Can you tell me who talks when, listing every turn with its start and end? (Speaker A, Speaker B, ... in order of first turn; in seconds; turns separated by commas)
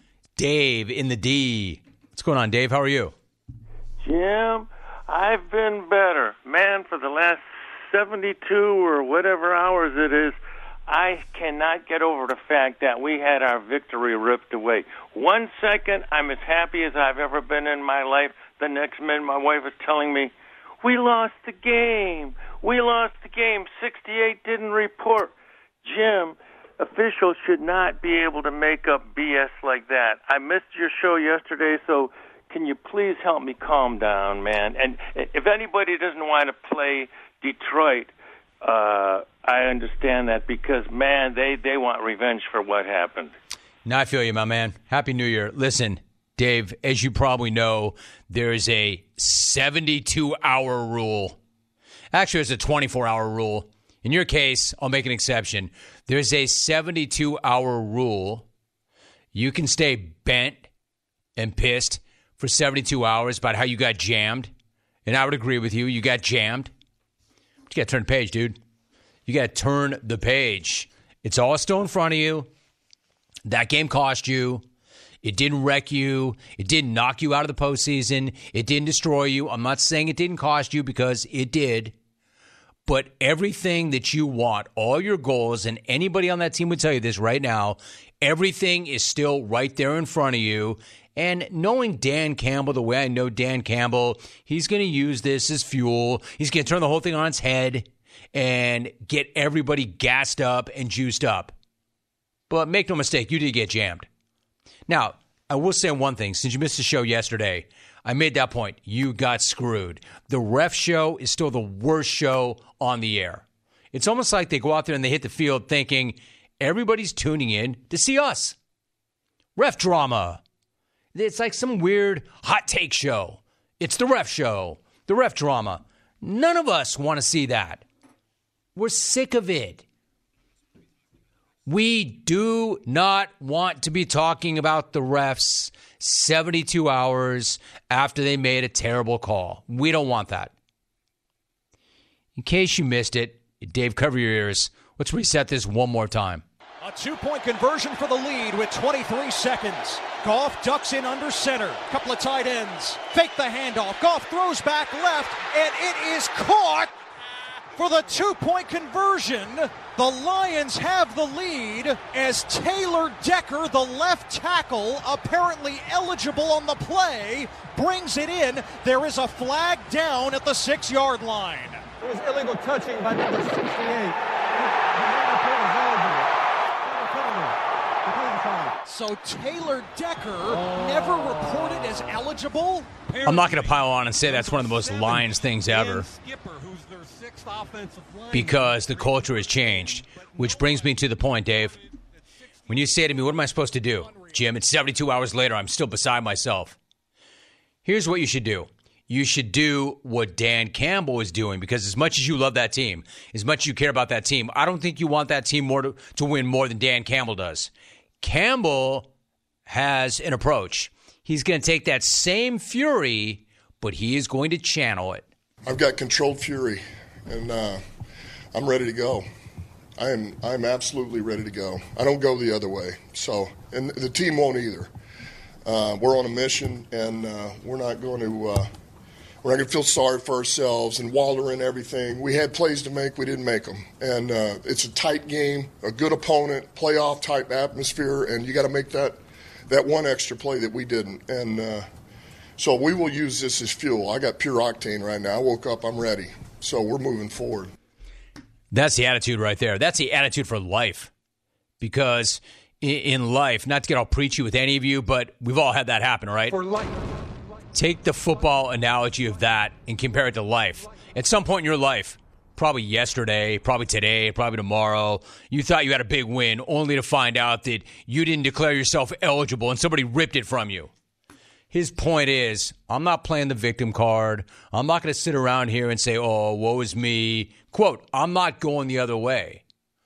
Speaker A: 0.3-3.1, Speaker B: 4.0-10.3, Speaker B: 10.9-43.3, Speaker A: 43.8-51.4, Speaker A: 52.1-58.5, Speaker A: 59.3-60.6, Speaker A: 61.4-64.5, Speaker A: 65.0-66.7, Speaker A: 67.7-68.6, Speaker A: 69.3-72.5, Speaker A: 73.4-74.6, Speaker A: 75.2-81.9, Speaker A: 82.8-101.5, Speaker A: 102.5-104.1, Speaker A: 104.9-118.5, Speaker A: 119.5-120.4, Speaker A: 121.1-127.8, Speaker A: 128.8-129.8, Speaker A: 131.7-140.5, Speaker A: 142.4-146.4, Speaker C: 146.8-157.0, Speaker C: 157.7-171.8, Speaker D: 172.0-176.3, Speaker D: 176.8-178.7, Speaker C: 178.8-189.2, Speaker A: 183.2-186.1, Speaker A: 188.3-191.8, Speaker C: 190.2-190.8, Speaker A: 192.7-196.8, Speaker C: 194.0-194.3, Speaker A: 197.8-209.1, Speaker A: 209.7-215.2, Speaker E: 215.7-217.8, Speaker E: 218.5-219.2, Speaker E: 220.0-224.9, Speaker E: 225.7-228.7, Speaker E: 229.4-239.2, Speaker E: 239.7-241.9, Speaker E: 242.6-247.7, Speaker A: 248.7-251.1, Speaker A: 251.8-256.7, Speaker A: 257.7-270.9, Speaker A: 271.7-279.6